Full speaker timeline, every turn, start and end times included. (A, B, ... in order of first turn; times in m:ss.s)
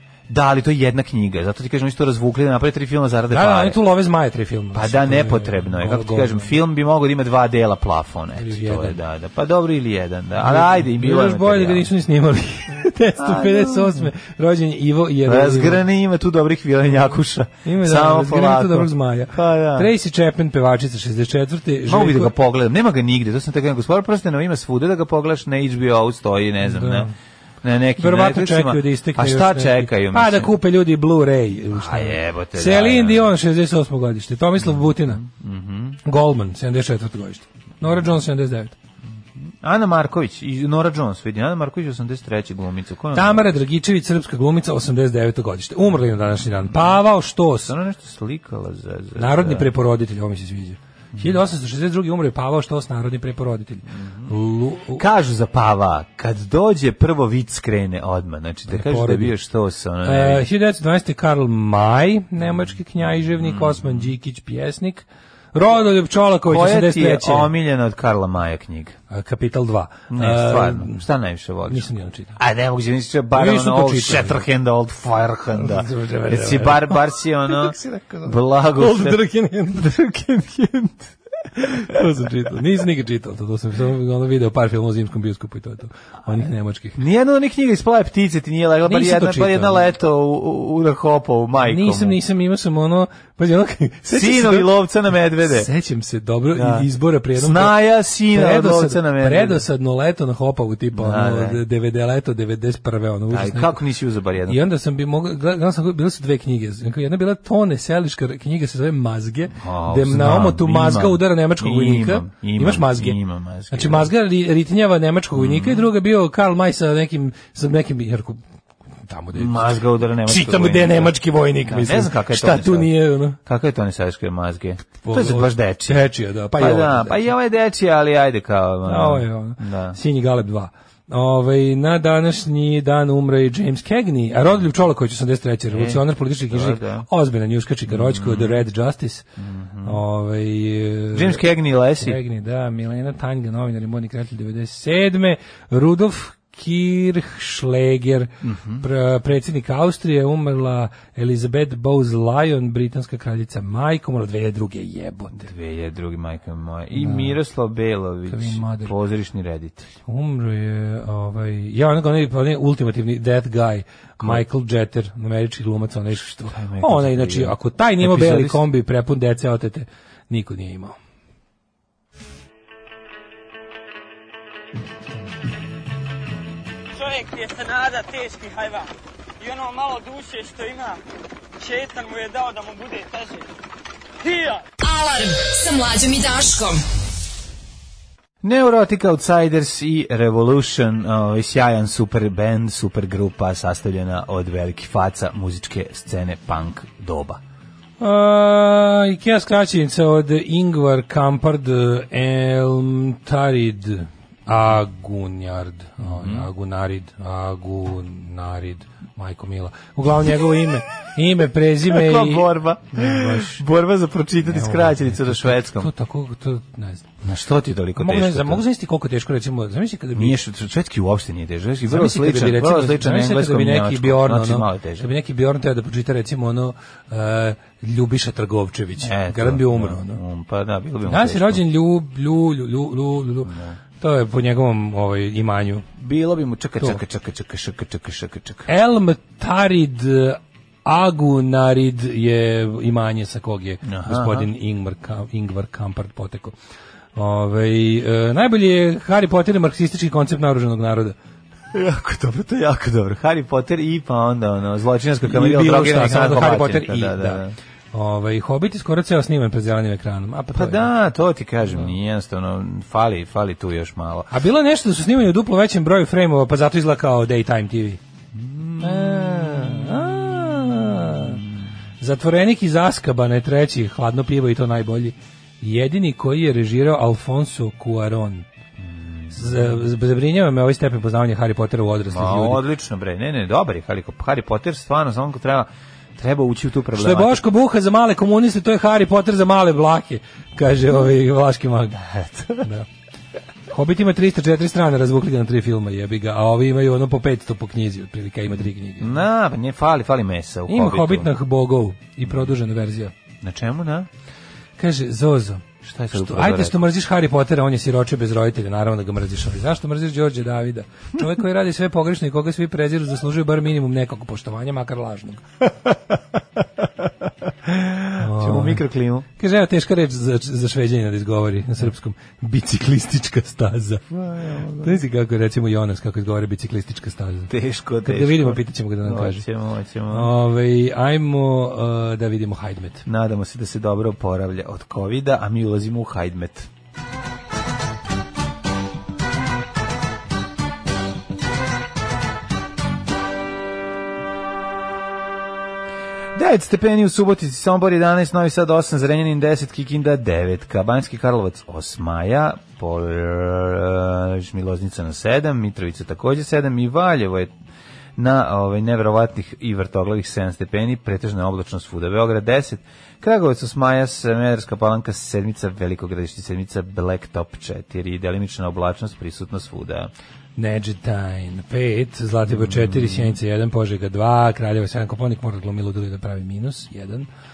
0:00.3-0:03.8 A
0:03.3-0:06.5 B
0:04.7-0:11.9 A
0:08.4-0:09.0 B
0:10.4-0:15.8 B
0:13.2-0:14.1 A
0:15.2-0:19.9 A
0:17.6-0:22.3 B
0:21.9-0:27.1 A
0:26.6-0:27.1 B
0:27.6-0:30.5 A
0:28.0-0:35.2 B
0:31.7-0:33.3 A
0:34.6-0:36.0 A
0:36.0-0:38.8 B
0:39.4-0:43.4 A
0:43.1-0:47.7 B
0:47.7-0:49.7 A
0:49.2-0:55.0 B
0:51.1-0:51.4 A
0:54.0-0:54.3 A
0:54.9-1:00.5 A
0:58.7-0:59.4 B
1:00.0-1:07.5 B
1:03.2-1:04.1 A
1:06.5-1:09.0 A
1:09.1-1:11.0 B
1:10.1-1:21.1 A
1:11.7-1:12.4 B
1:13.3-1:14.4 B
1:15.5-1:19.9 B
1:21.6-1:27.0 B
1:27.0-1:32.2 A
1:28.8-1:29.8 B
1:31.6-1:34.7 B
1:34.1-1:35.7 A
1:35.4-1:43.8 B
1:36.5-1:39.6 A
1:40.9-1:41.6 A
1:43.3-1:44.6 A
1:44.5-1:53.2 B
1:49.6-1:54.1 A
1:53.7-1:58.4 B
1:55.3-1:55.9 A
1:59.1-2:03.4 B
1:59.4-2:10.0 A
2:05.0-2:07.3 B
2:08.8-2:19.2 B
2:15.7-2:17.1 A
2:17.9-2:18.6 A
2:19.4-2:20.0 A
2:19.8-2:35.5 B
2:21.1-2:22.2 A
2:28.4-2:28.8 A
2:35.4-2:39.9 A
2:37.0-2:37.4 B
2:38.3-2:39.0 B
2:40.0-2:51.0 B
2:46.5-2:48.6 A
2:57.0-3:01.0 C
3:01.6-3:03.5 C
3:04.2-3:04.7 C
3:04.8-3:06.8 D
3:08.4-3:17.4 A
3:18.0-3:33.6 B
3:26.0-3:26.5 A
3:31.8-3:35.9 A
3:34.4-3:37.1 B
3:37.2-3:38.6 A
3:38.0-3:40.4 B
3:40.2-3:45.1 A
3:41.9-3:50.2 B
3:49.0-3:51.6 A
3:51.0-3:55.9 B
3:53.4-3:53.8 A
3:56.0-3:58.7 A
3:58.7-4:06.6 B
4:03.8-4:04.5 A
4:07.2-4:11.2 B
4:11.7-4:17.5 A
4:15.2-4:17.4 B
4:17.9-4:20.9 B
4:20.6-4:24.3 A
4:24.3-4:28.0 B
4:28.3-4:31.5 A
4:28.8-4:31.4 B
4:32.0-4:38.5 B
4:38.8-4:39.8 A
4:39.3-4:42.6 B
4:42.1-4:47.4 A
4:47.0-4:52.0 B
4:52.0-4:52.6 A
4:52.6-4:52.9 B
4:53.7-4:59.2 B
4:59.0-5:01.3 A
5:00.7-5:03.1 B
5:03.4-5:04.1 A
5:04.8-5:15.4 B
5:05.8-5:06.8 A
5:17.6-5:19.3 A
5:18.2-5:18.8 B
5:19.4-5:24.2 B
5:24.1-5:25.0 A
5:24.8-5:27.5 B
5:27.5-5:30.3 A
5:28.0-5:29.4 B
5:30.1-5:33.0 B
5:33.1-5:36.7 A
5:46.4-5:57.5 A
5:58.2-6:10.1 A
6:10.6-6:17.3 B
6:12.5-6:13.4 A